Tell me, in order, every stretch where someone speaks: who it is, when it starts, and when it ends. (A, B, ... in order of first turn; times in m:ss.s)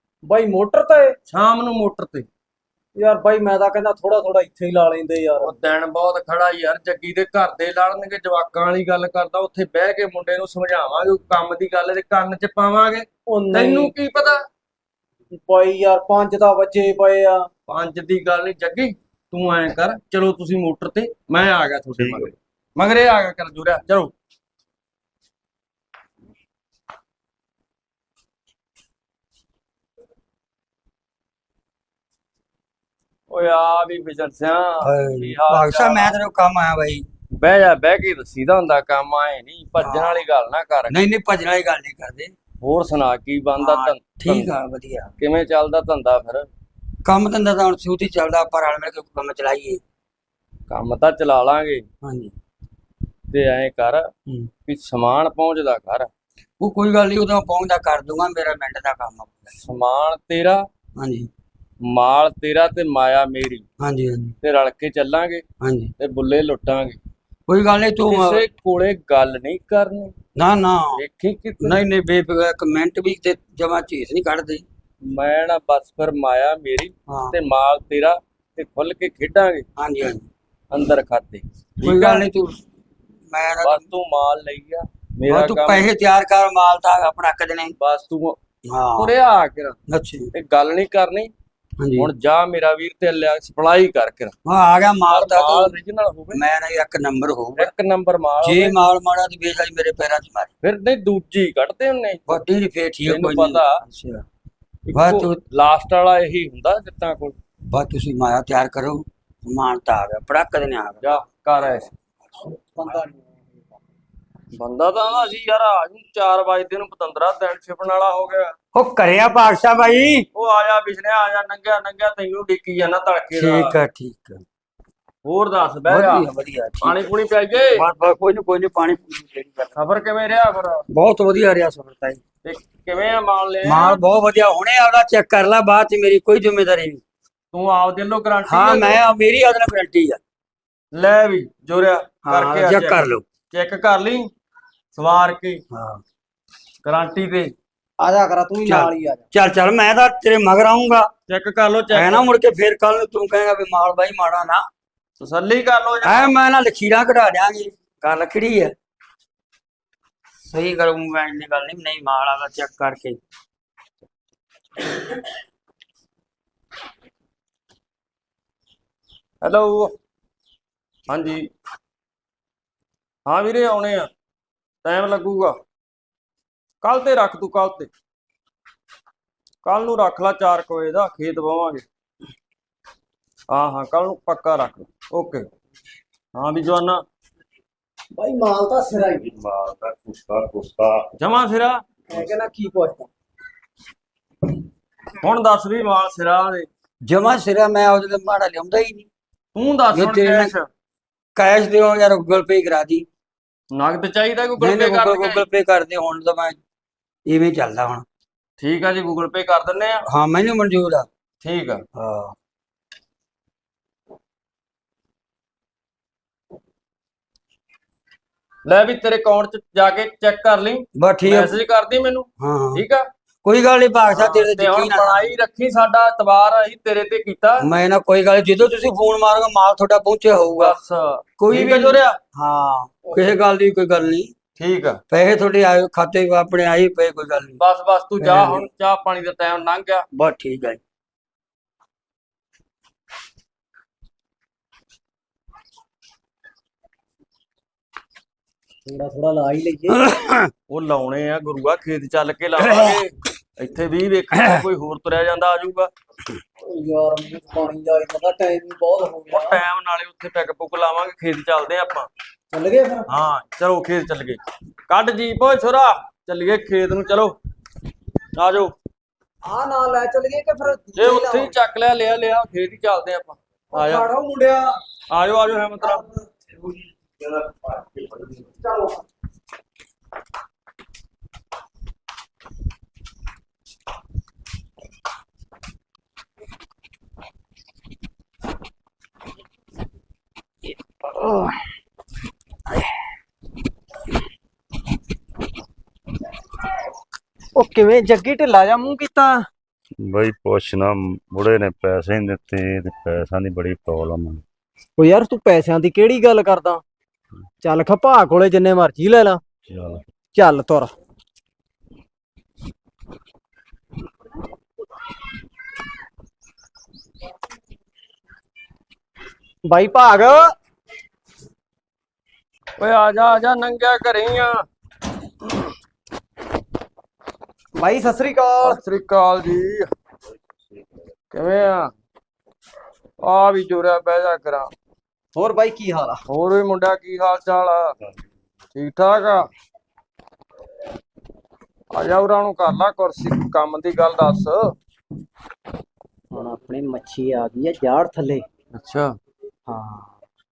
0:00.2-0:01.2 A
0:01.3-0:02.3 B
0:02.9-0:05.5 A
0:05.4-0:14.4 B
0:13.3-0:13.9 A
0:15.3-0:17.5 A
0:17.7-0:24.1 B
0:22.0-0:22.3 C
0:33.3-0:36.2 B
0:34.8-0:37.0 D
0:37.4-0:41.0 B
0:39.8-0:40.2 D
0:40.9-0:42.3 D
0:42.6-0:44.5 B
0:43.6-0:45.1 D
0:45.2-0:46.5 B
0:47.0-0:49.8 D
0:50.7-0:51.8 B
0:52.0-0:52.3 D
0:53.3-0:54.1 B
0:54.6-0:56.1 B
0:56.6-0:59.5 D
0:59.6-1:00.7 B
1:01.0-1:01.3 D
1:01.8-1:03.6 B
1:03.8-1:04.3 D
1:04.4-1:05.4 B
1:05.6-1:05.9 D
1:06.0-1:07.0 B
1:07.5-1:08.4 D
1:08.0-1:10.1 B
1:10.4-1:11.0 D
1:11.0-1:11.8 B
1:11.6-1:14.6 D
1:15.0-1:19.7 B
1:17.1-1:17.3 D
1:19.8-1:20.2 D
1:20.7-1:22.3 B
1:21.8-1:22.6 D
1:23.3-1:23.8 D
1:23.6-1:25.9 B
1:25.3-1:27.7 D
1:27.8-1:28.4 B
1:28.6-1:29.1 D
1:29.0-1:29.8 B
1:29.9-1:30.3 D
1:30.3-1:31.3 B
1:31.8-1:32.1 D
1:32.0-1:34.3 B
1:34.4-1:35.7 D
1:35.1-1:36.4 B
1:36.3-1:37.7 D
1:37.6-1:38.8 B
1:38.4-1:40.5 D
1:40.6-1:42.4 B
1:42.3-1:44.2 D
1:43.0-1:43.8 B
1:44.9-1:47.4 B
1:44.9-1:45.4 D
1:47.7-1:51.0 D
1:51.0-1:51.9 B
1:52.5-1:53.6 A
1:54.5-1:58.5 B
1:58.7-2:00.2 D
2:00.3-2:03.8 B
2:03.3-2:04.4 D
2:05.2-2:06.3 B
2:05.9-2:07.0 D
2:06.8-2:07.8 B
2:07.7-2:09.7 D
2:09.7-2:10.8 B
2:10.9-2:12.2 D
2:12.4-2:14.0 B
2:13.6-2:17.0 D
2:17.5-2:19.0 B
2:18.4-2:20.2 D
2:20.9-2:24.3 B
2:22.2-2:23.2 D
2:24.9-2:25.6 B
2:25.7-2:26.0 D
2:26.8-2:27.5 B
2:28.0-2:29.3 A
2:28.7-2:31.1 D
2:31.3-2:32.3 B
2:31.9-2:34.7 D
2:35.2-2:36.3 B
2:36.0-2:38.7 D
2:40.4-2:43.2 D
2:49.4-2:49.9 B
2:51.1-2:51.5 B
2:53.2-2:54.1 B
2:54.8-2:55.6 B
2:56.8-2:57.9 B
2:59.6-3:01.8 B
3:03.5-3:05.5 B
3:06.3-3:07.0 B
3:08.1-3:09.3 A
3:09.2-3:11.1 C
3:11.2-3:11.8 B
3:12.1-3:13.1 A
3:15.2-3:16.7 B
3:17.0-3:19.1 D
3:19.5-3:20.7 B
3:19.9-3:20.5 D
3:21.3-3:23.1 D
3:23.7-3:25.4 B
3:24.6-3:26.6 D
3:27.2-3:28.0 D
3:28.6-3:30.0 B
3:30.0-3:31.1 D
3:31.4-3:31.8 B
3:32.0-3:32.3 D
3:38.6-3:43.1 B
3:41.0-3:41.6 D
3:42.4-3:42.8 D
3:43.4-3:45.2 D
3:44.1-3:47.7 B
3:47.6-3:50.8 D
3:50.5-3:52.2 B
3:51.4-3:54.3 D
3:54.6-3:55.0 B
3:55.1-3:57.6 D
3:57.6-4:00.0 B
3:58.2-3:58.7 D
4:00.1-4:00.8 D
4:08.8-4:10.0 A
4:09.9-4:10.5 D
4:10.7-4:15.9 B
4:12.6-4:13.0 D
4:14.3-4:14.6 D
4:16.6-4:19.6 A
4:19.3-4:22.1 B
4:22.5-4:23.1 A
4:23.1-4:27.4 B
4:28.3-4:28.7 B
4:29.4-4:31.5 A
4:31.0-4:34.0 B
4:33.7-4:34.8 A
4:35.1-4:36.1 B
4:35.8-4:36.1 A
4:38.4-4:39.0 A
4:51.0-4:51.6 A
4:57.5-4:59.4 A
5:00.0-5:04.4 C
5:05.0-5:06.8 A
5:07.6-5:09.4 A
5:09.7-5:10.0 C
5:10.3-5:10.9 A
5:19.6-5:20.5 A
5:22.8-5:24.6 B
5:27.8-5:28.8 A
5:28.6-5:29.9 B
5:30.7-5:31.0 C
5:31.3-5:31.9 B
5:33.2-5:34.7 B
5:35.3-5:36.2 A
5:36.3-5:38.0 B
5:38.7-5:39.5 B
5:41.9-5:44.8 B
5:46.3-5:48.4 A
5:48.7-5:49.2 B
5:49.7-5:50.2 A